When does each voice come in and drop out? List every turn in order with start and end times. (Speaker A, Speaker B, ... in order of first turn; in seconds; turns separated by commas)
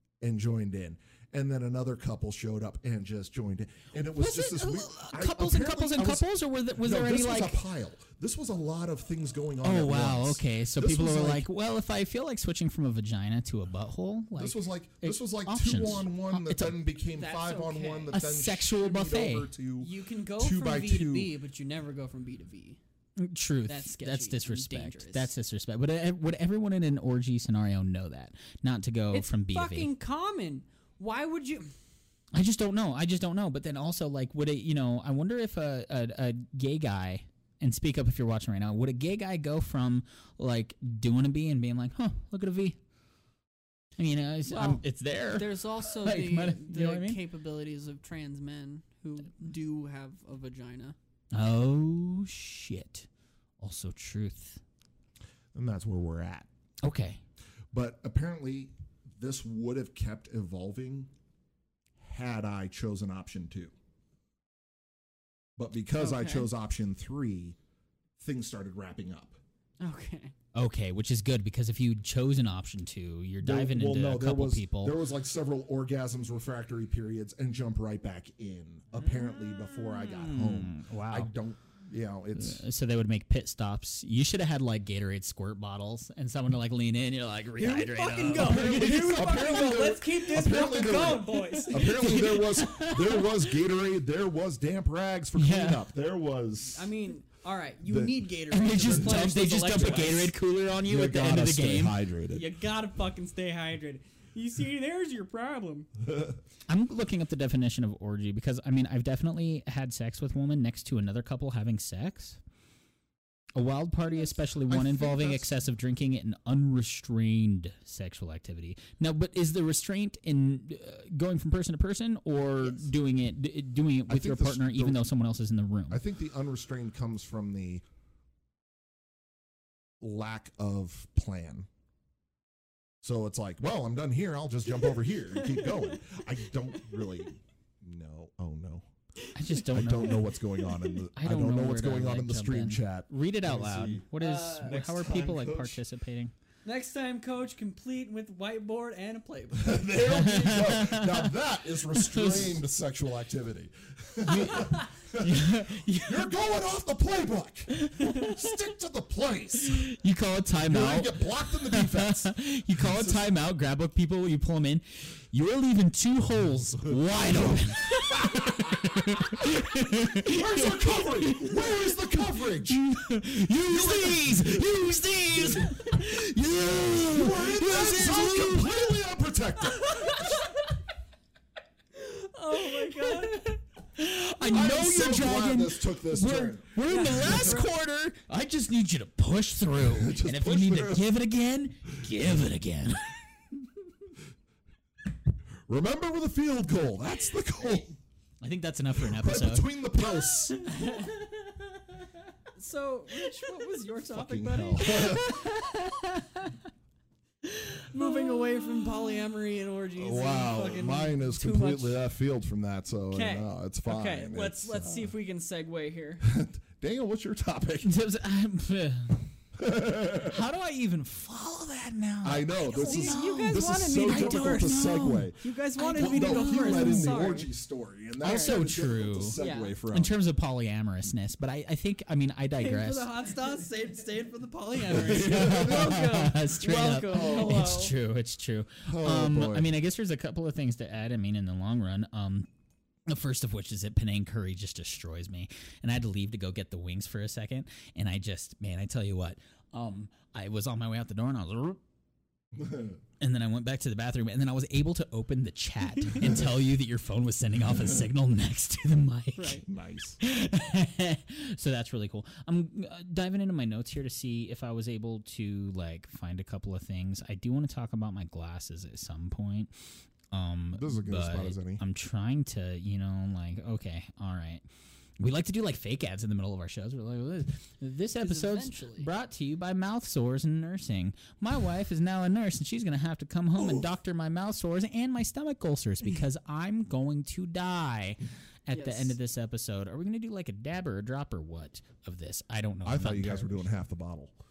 Speaker A: 0.2-11.5, Speaker B: 4.2-7.6, Speaker B: 9.6-16.8, Speaker A: 14.3-21.3, Speaker C: 17.1-18.1, Speaker B: 18.1-19.5, Speaker C: 19.8-22.8, Speaker B: 23.2-29.9, Speaker C: 23.7-25.3, Speaker C: 29.1-31.7, Speaker B: 32.3-42.8, Speaker B: 44.0-47.2, Speaker C: 44.5-51.0, Speaker B: 51.3-53.1, Speaker B: 53.6-54.6, Speaker A: 55.5-56.5, Speaker B: 56.8-57.2, Speaker A: 57.7-61.1, Speaker A: 62.0-63.7, Speaker A: 65.6-67.6, Speaker C: 66.0-66.5, Speaker A: 68.2-69.4, Speaker C: 69.8-70.3, Speaker B: 70.5-75.0, Speaker A: 73.4-82.6, Speaker B: 79.8-81.3, Speaker B: 82.3-89.2, Speaker C: 87.6-92.2, Speaker A: 88.3-96.9, Speaker B: 91.5-93.4, Speaker B: 95.3-95.9, Speaker C: 96.7-100.3, Speaker A: 97.8-98.3, Speaker B: 98.5-102.0, Speaker A: 98.8-99.2, Speaker A: 100.8-102.5, Speaker C: 102.3-105.9, Speaker B: 106.7-112.4, Speaker B: 113.5-126.0, Speaker A: 114.7-115.5, Speaker A: 124.1-125.0, Speaker A: 125.9-127.8, Speaker A: 130.0-131.7, Speaker A: 133.0-138.9, Speaker B: 139.3-140.3, Speaker A: 139.7-144.1, Speaker B: 141.2-146.3, Speaker C: 144.2-145.3, Speaker A: 144.6-145.8, Speaker C: 146.6-149.9, Speaker A: 149.5-159.8, Speaker B: 150.0-151.3, Speaker B: 151.9-152.6, Speaker B: 154.3-156.3, Speaker B: 157.7-158.6, Speaker B: 159.7-172.0, Speaker A: 160.6-163.3, Speaker A: 167.0-169.6, Speaker A: 170.1-172.8, Speaker B: 172.7-179.0, Speaker A: 173.7-174.6, Speaker A: 175.3-175.8, Speaker A: 177.0-180.1, Speaker C: 181.9-183.6, Speaker B: 182.8-193.2, Speaker A: 184.4-187.6, Speaker C: 186.8-187.7, Speaker A: 189.8-191.0, Speaker A: 195.7-198.0, Speaker B: 198.4-199.7, Speaker A: 199.0-200.6, Speaker B: 200.5-201.1, Speaker C: 200.8-201.1, Speaker C: 202.5-205.3, Speaker A: 204.1-205.4, Speaker B: 205.0-206.0, Speaker C: 207.7-212.0, Speaker A: 209.9-215.1, Speaker C: 213.1-216.2, Speaker A: 216.2-217.9, Speaker B: 217.8-219.2, Speaker A: 219.5-220.4, Speaker B: 220.2-227.2, Speaker A: 222.2-225.4, Speaker C: 222.7-227.5, Speaker A: 225.9-230.2, Speaker B: 228.2-233.1, Speaker C: 229.3-229.7, Speaker C: 232.6-237.9, Speaker B: 234.9-242.5, Speaker A: 235.2-236.0, Speaker A: 237.1-237.6, Speaker A: 238.8-239.7, Speaker B: 243.1-251.8, Speaker A: 252.5-253.0, Speaker B: 253.2-259.6, Speaker A: 256.2-256.5, Speaker C: 259.4-259.6, Speaker A: 259.7-260.2, Speaker B: 260.2-269.7, Speaker B: 270.3-274.6, Speaker A: 270.7-271.8, Speaker B: 275.2-293.6, Speaker C: 278.2-279.1, Speaker C: 288.7-289.2, Speaker A: 292.8-294.3